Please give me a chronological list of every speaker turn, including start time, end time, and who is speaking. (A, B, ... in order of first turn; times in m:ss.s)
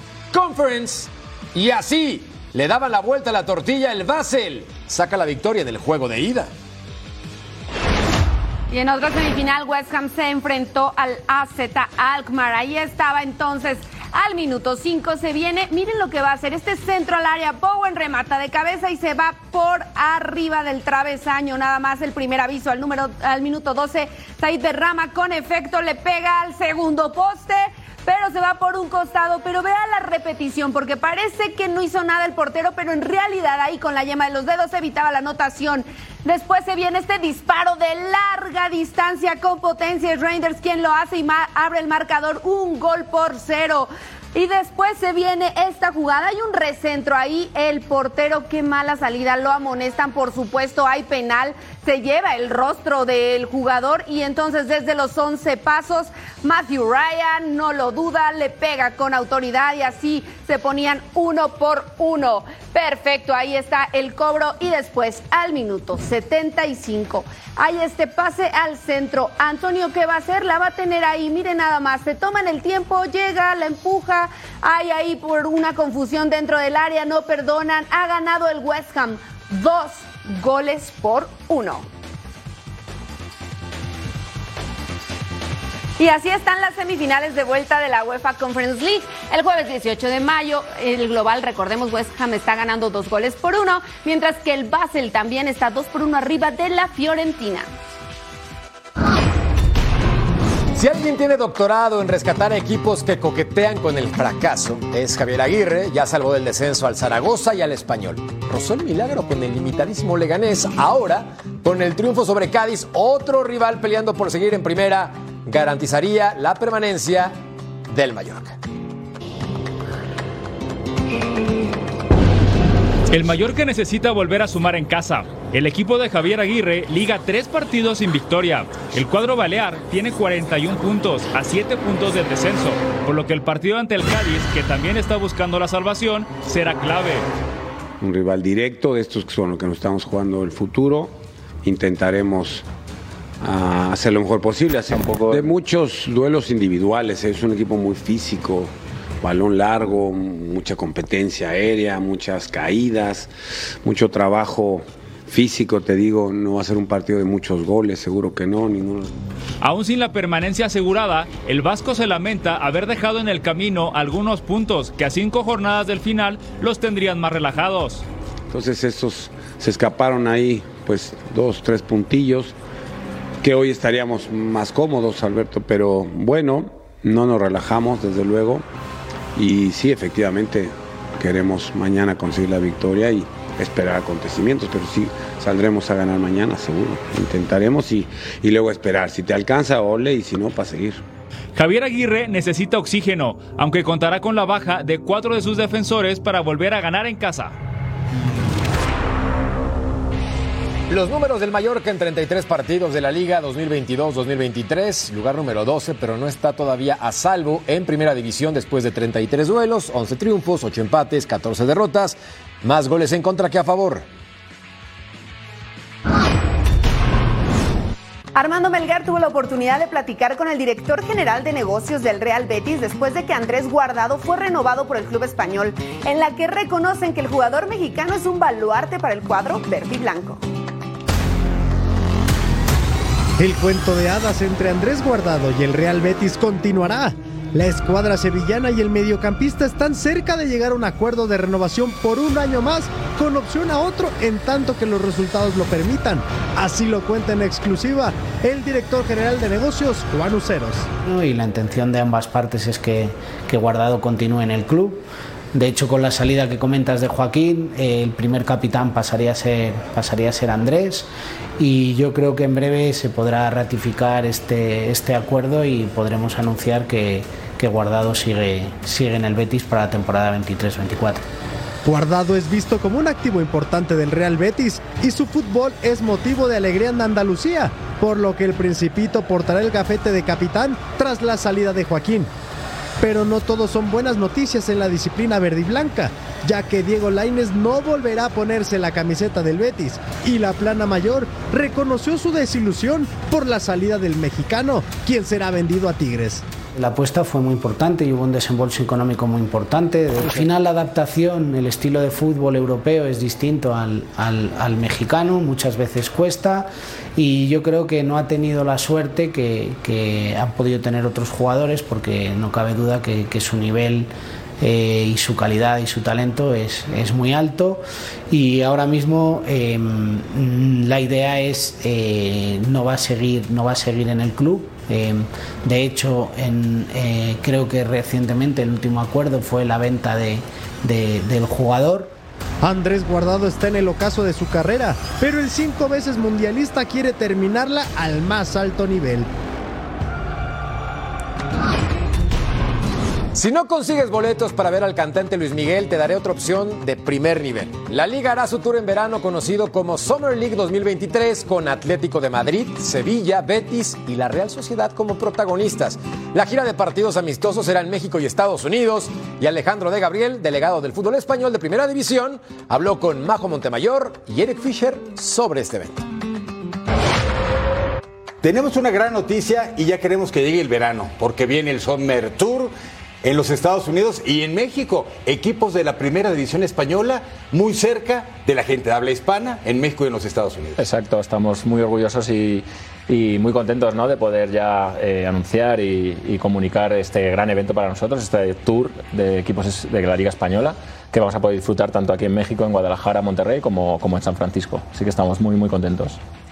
0:00.3-0:06.5 A
0:08.7-1:21.9 B
1:26.0-1:37.7 B
1:40.7-1:57.4 A
1:57.9-1:58.6 A
2:03.1-2:17.3 C
2:18.0-2:22.6 D
2:23.4-2:33.3 D
2:24.9-2:25.5 E
2:33.8-2:39.1 D
2:39.6-2:48.0 C
2:48.5-2:52.5 D
2:53.4-2:58.6 D
2:59.4-3:11.0 D
3:11.6-3:17.6 C
3:20.9-3:34.1 A
3:38.4-3:50.4 B
3:53.4-4:10.9 F
4:11.0-4:15.0 G
4:15.5-4:31.2 G
4:31.8-4:42.3 F
4:43.0-4:56.4 F
4:56.8-5:32.1 G
5:32.6-5:39.3 F
5:43.4-6:06.1 A
6:08.4-6:20.9 H
6:20.8-6:36.2 E